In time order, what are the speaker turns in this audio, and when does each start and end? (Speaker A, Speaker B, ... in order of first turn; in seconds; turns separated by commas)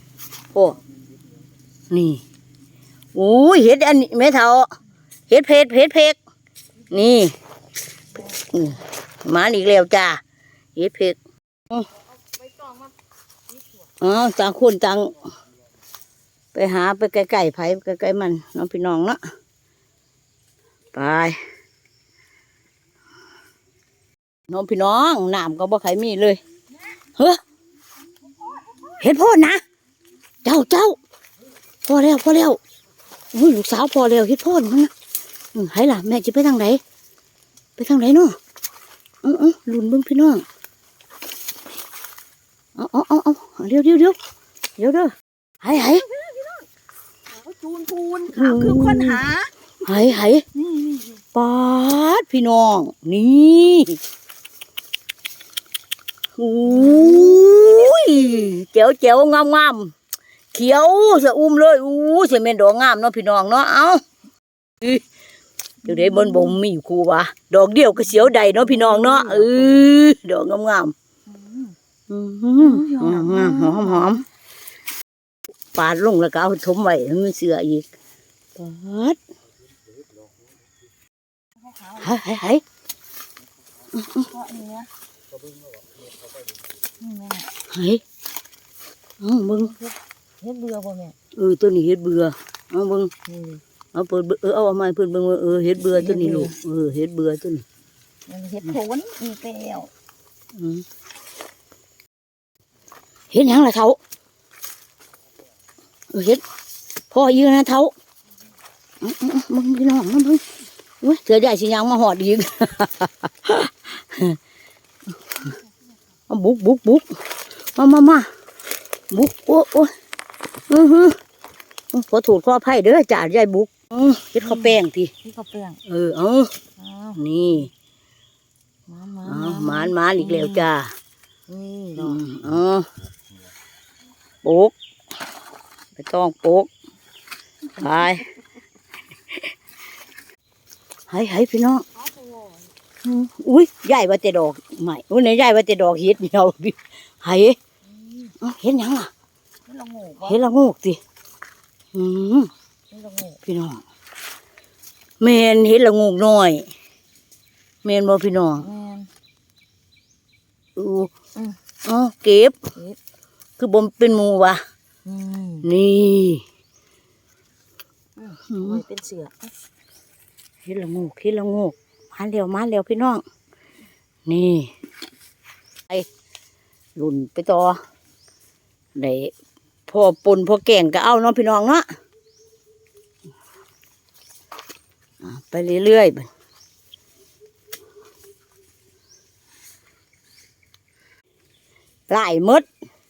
Speaker A: 0.5-0.8, Speaker A: 1.9-2.2, Speaker A: 3.1-4.7, Speaker A: 5.3-6.2, Speaker A: 6.9-7.3, Speaker A: 8.2-10.2, Speaker A: 10.7-11.2, Speaker A: 14.0-15.2, Speaker A: 16.5-19.2, Speaker A: 20.9-21.4, Speaker A: 24.5-26.4, Speaker A: 27.1-27.4, Speaker A: 28.9-29.6, Speaker A: 30.4-31.0, Speaker A: 31.8-32.6, Speaker A: 33.3-34.9, Speaker A: 35.5-36.8, Speaker A: 37.8-38.4, Speaker A: 39.2-40.4, Speaker A: 42.8-44.1, Speaker A: 44.8-46.1, Speaker B: 46.2-46.5, Speaker B: 47.3-49.5, Speaker A: 48.3-49.2, Speaker A: 49.8-50.5, Speaker B: 50.6-51.0, Speaker A: 51.3-54.0, Speaker A: 56.4-59.9, Speaker A: 60.5-64.0, Speaker A: 65.8-70.9, Speaker B: 68.8-69.5, Speaker B: 71.3-71.8, Speaker A: 72.1-74.2, Speaker B: 72.6-73.8, Speaker A: 75.7-77.9, Speaker A: 78.5-79.2, Speaker B: 81.7-82.0, Speaker A: 81.9-82.6, Speaker A: 84.0-84.3, Speaker B: 84.2-84.9, Speaker B: 87.0-87.5, Speaker A: 87.7-88.0, Speaker A: 89.2-89.8, Speaker B: 89.8-91.1, Speaker A: 91.3-93.1, Speaker B: 93.3-93.6, Speaker A: 93.9-97.6, Speaker B: 98.3-99.9, Speaker A: 100.5-100.8, Speaker A: 103.3-104.0, Speaker A: 106.1-106.4, Speaker A: 107.1-107.9, Speaker A: 109.0-110.4, Speaker A: 111.0-114.4, Speaker A: 116.3-117.1, Speaker A: 117.7-118.3, Speaker A: 119.1-119.9, Speaker A: 120.7-121.2, Speaker A: 121.9-125.1, Speaker B: 125.2-125.8, Speaker A: 125.8-126.5, Speaker B: 126.8-127.2, Speaker A: 127.1-127.7, Speaker B: 128.9-129.8, Speaker A: 129.2-130.9, Speaker B: 131.5-132.1, Speaker A: 132.0-132.9, Speaker A: 134.4-134.7, Speaker A: 135.9-136.7, Speaker A: 137.7-138.3, Speaker A: 141.1-141.8, Speaker B: 142.0-142.6, Speaker A: 143.0-147.6, Speaker A: 148.4-149.1, Speaker B: 149.7-150.3, Speaker A: 150.2-151.0, Speaker A: 151.9-152.5, Speaker B: 152.9-153.4, Speaker A: 153.4-153.8, Speaker A: 155.2-156.7, Speaker A: 157.8-158.7, Speaker B: 158.6-159.1, Speaker A: 160.8-161.1, Speaker A: 161.8-162.6, Speaker A: 163.6-164.6, Speaker B: 165.1-165.6, Speaker A: 165.6-166.4, Speaker B: 168.2-169.5, Speaker A: 168.4-168.8, Speaker A: 170.6-173.2, Speaker A: 174.2-174.7, Speaker A: 176.9-177.8, Speaker A: 178.9-179.3, Speaker A: 179.9-181.8, Speaker A: 185.2-186.3, Speaker A: 192.1-192.7